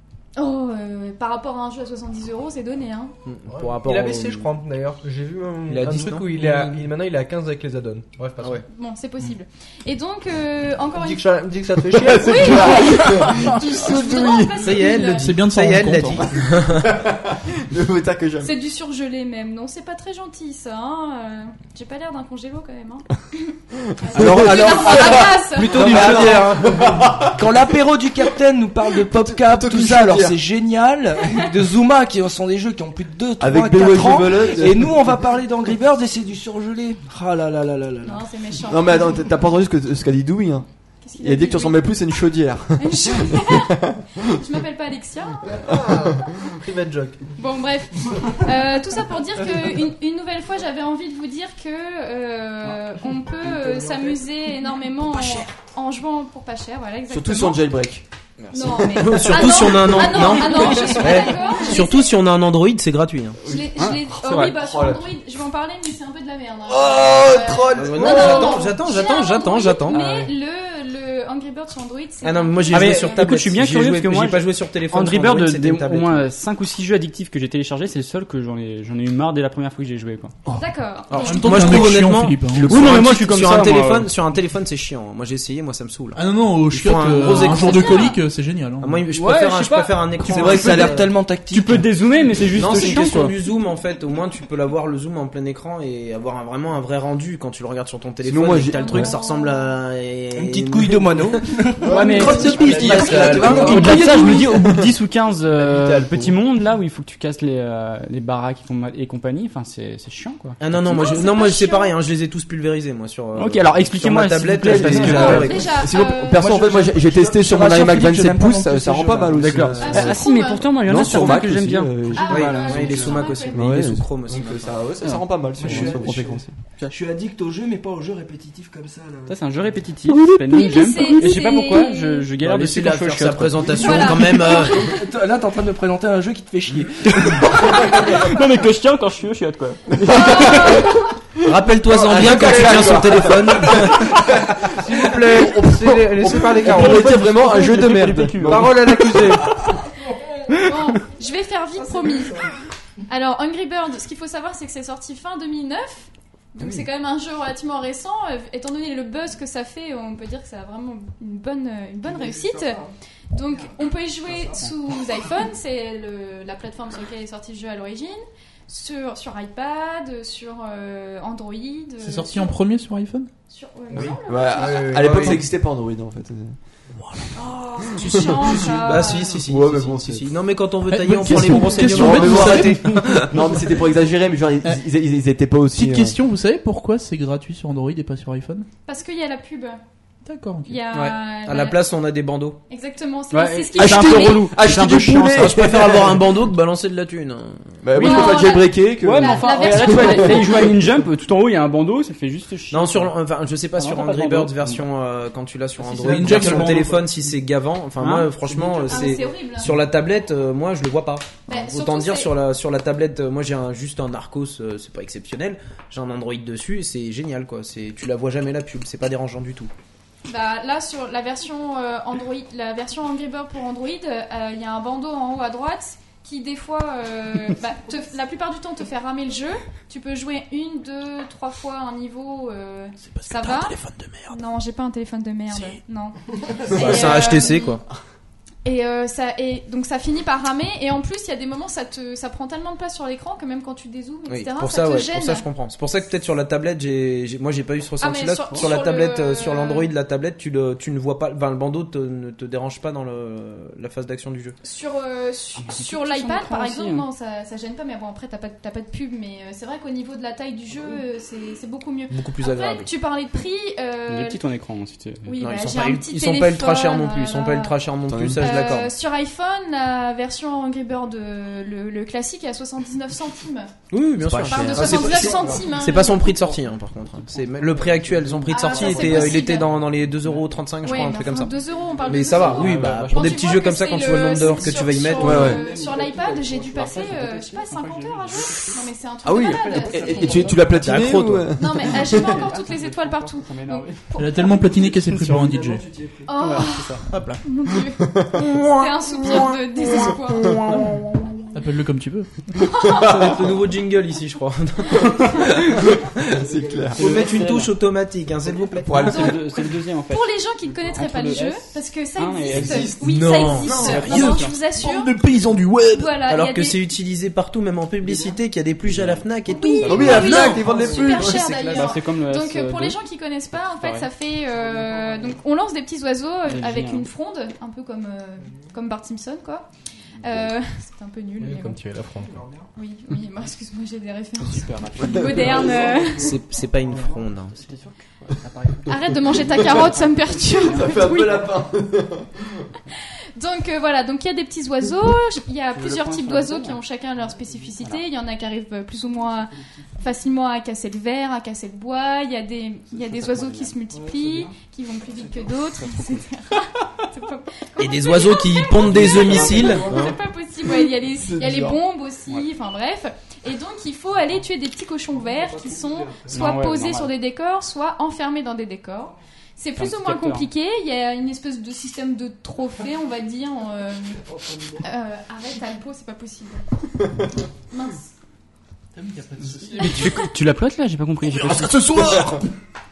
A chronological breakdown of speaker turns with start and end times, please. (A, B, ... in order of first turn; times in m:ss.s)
0:00.4-0:03.1 A
0:03.2-0:04.5 B
0:03.5-0:08.6 C
0:05.7-0:06.8 B
0:08.6-0:11.2 A
0:11.0-0:12.8 C
0:12.0-0:14.7 D
0:12.1-0:15.4 A
0:14.6-0:16.9 B
0:15.1-0:16.3 E
0:16.2-0:18.5 D
0:18.4-0:26.4 A
0:24.0-0:27.5 D
0:24.1-0:38.3 F
0:25.7-0:27.0 C
0:29.2-0:30.4 D
0:33.4-0:35.0 D
0:38.0-0:39.2 A
0:38.7-0:40.6 D
0:41.0-0:41.8 A
0:41.2-0:44.2 D
0:42.8-0:43.8 A
0:44.3-0:45.4 A
0:45.4-0:47.2 C
0:45.7-0:46.4 D
0:47.4-0:57.6 A
0:57.1-0:58.0 D
0:58.4-1:03.4 B
0:58.5-1:02.2 A
0:58.6-1:01.0 D
1:03.4-1:05.0 D
1:03.4-1:13.3 A
1:04.2-1:04.5 G
1:06.7-1:08.6 D
1:07.7-1:10.1 B
1:12.2-1:16.3 B
1:12.7-1:20.3 G
1:20.5-1:22.0 A
1:21.1-1:28.1 B
1:21.2-1:22.9 E
1:22.6-1:24.1 G
1:26.1-1:29.0 E
1:27.2-1:28.2 A
1:28.8-1:31.1 B
1:29.1-1:30.0 G
1:30.3-1:31.8 F
1:30.6-1:30.9 G
1:31.5-1:33.3 G
1:32.5-1:41.4 B
1:38.2-1:39.1 D
1:38.7-1:39.6 A
1:40.3-1:44.4 F
1:41.8-1:44.9 D
1:41.8-1:50.6 G
1:42.1-1:44.3 B
1:42.9-1:44.5 A
1:45.6-1:46.3 C
1:50.6-1:55.8 B
1:50.8-1:52.0 A
1:53.4-1:55.5 G
1:54.7-2:02.4 D
1:54.9-1:55.5 F
1:55.0-1:56.5 A
1:56.3-2:00.0 F
1:59.4-2:02.0 G
1:59.8-2:01.4 A
2:02.1-2:03.7 A
2:02.2-2:03.3 F
2:02.3-2:04.9 B
2:03.5-2:06.5 D
2:05.0-2:06.0 G
2:05.6-2:09.4 F
2:09.3-2:14.1 G
2:10.4-2:12.4 A
2:12.4-2:14.8 B
2:13.7-2:14.9 A
2:13.9-2:18.0 F
2:17.5-2:20.8 G
2:20.0-2:29.6 D
2:20.0-2:21.0 A
2:21.4-2:24.2 B
2:24.7-2:29.5 C
2:26.6-2:28.8 G
2:29.6-2:30.4 F
2:30.6-2:32.5 A
2:33.1-2:42.8 A
2:36.6-2:36.8 D
2:42.0-2:42.9 F
2:43.3-2:52.5 A
2:44.3-2:44.7 F
2:52.0-2:53.3 E
2:53.5-2:54.9 A
2:53.9-2:56.6 D
2:54.0-2:55.4 C
2:57.0-2:57.3 E
2:57.4-2:59.4 A
2:57.8-2:58.8 D
2:58.0-3:03.6 B
2:59.3-3:00.3 D
3:00.9-3:03.0 E
3:01.3-3:06.2 D
3:05.7-3:08.7 E
3:08.8-3:09.8 A
3:10.2-3:10.8 E
3:10.6-3:11.8 A
3:10.9-3:12.6 B
3:12.7-3:14.5 A
3:13.3-3:15.9 G
3:13.8-3:16.2 D
3:15.3-3:17.8 B
3:17.8-3:20.7 D
3:17.9-3:20.6 A
3:19.0-3:23.1 G
3:22.7-3:39.7 B
3:23.8-3:24.8 G
3:25.9-3:27.0 E
3:26.0-3:26.8 G
3:28.0-3:29.1 G
3:28.8-3:29.7 A
3:31.5-3:32.3 A
3:40.2-3:53.8 A
3:53.0-3:54.4 E
3:54.3-3:57.8 A
3:55.5-3:55.8 E
3:56.7-3:57.8 B
3:58.6-4:05.4 A
4:04.3-4:14.6 B
4:08.0-4:09.9 A
4:14.6-4:24.4 A
4:15.6-4:17.0 G
4:22.1-4:22.9 B
4:24.1-4:25.4 G
4:25.2-4:27.8 A
4:25.4-4:28.9 B
4:28.1-4:28.7 D
4:28.3-4:33.7 A
4:33.9-4:45.5 B
4:34.2-4:35.6 D
4:34.4-4:36.5 A
4:38.4-4:39.8 A
4:38.9-4:39.3 G
4:40.8-4:50.6 A
4:42.4-4:43.2 G
4:45.1-4:47.4 F
4:45.2-4:45.6 D
4:46.7-4:48.8 G
4:49.2-4:52.4 D
4:49.5-4:50.8 G
4:50.7-4:51.5 B
4:51.5-4:54.4 A
4:51.9-4:54.5 G
4:54.2-4:55.8 E
4:54.7-4:56.3 F
4:56.2-5:00.6 A
4:56.3-4:57.0 G
4:57.1-4:57.4 E
4:58.4-4:59.5 B
5:00.5-5:00.8 B
5:00.7-5:00.9 E
5:01.5-5:02.5 E
5:02.6-5:03.4 A
5:02.9-5:03.2 D
5:03.0-5:06.2 B
5:05.0-5:05.5 A
5:06.4-5:07.2 D
5:06.4-5:07.0 F
5:06.9-5:07.7 G
5:06.9-5:09.1 B
5:08.8-5:09.4 D
5:09.0-5:09.5 A
5:09.0-5:13.0 G
5:10.1-5:15.1 A
5:12.5-5:13.0 D
5:13.0-5:14.3 B
5:13.6-5:14.5 D
5:13.7-5:14.6 G
5:14.7-5:16.2 E
5:15.9-5:16.8 A
5:16.3-5:21.9 B
5:19.5-5:31.8 A
5:19.8-5:21.5 D
5:21.7-5:23.0 G
5:23.7-5:24.1 G
5:24.7-5:25.3 F
5:26.4-5:27.1 G
5:31.4-5:32.4 C
5:32.2-5:32.7 F
5:32.7-5:36.4 A
5:34.4-5:35.8 G
5:35.0-5:35.9 D
5:35.5-5:36.2 F
5:36.2-5:37.6 B
5:36.9-5:37.2 F
5:37.6-5:41.0 G
5:38.9-5:41.5 A
5:38.9-5:39.9 D
5:40.5-5:42.7 D
5:43.4-6:14.2 A
5:45.7-5:46.8 G
5:47.6-5:48.0 G
5:53.2-5:53.7 G
5:53.9-5:54.5 F
5:57.8-6:00.0 B
5:58.9-6:00.1 F
5:59.1-6:00.1 D
6:01.4-6:01.7 D
6:05.1-6:06.5 F
6:06.2-6:07.1 G
6:09.8-6:10.5 G
6:14.8-6:16.7 A
6:17.7-6:18.1 A
6:19.0-6:20.2 E
6:19.7-6:20.3 A
6:19.8-6:22.2 G
6:21.4-6:22.4 E
6:22.0-6:22.4 D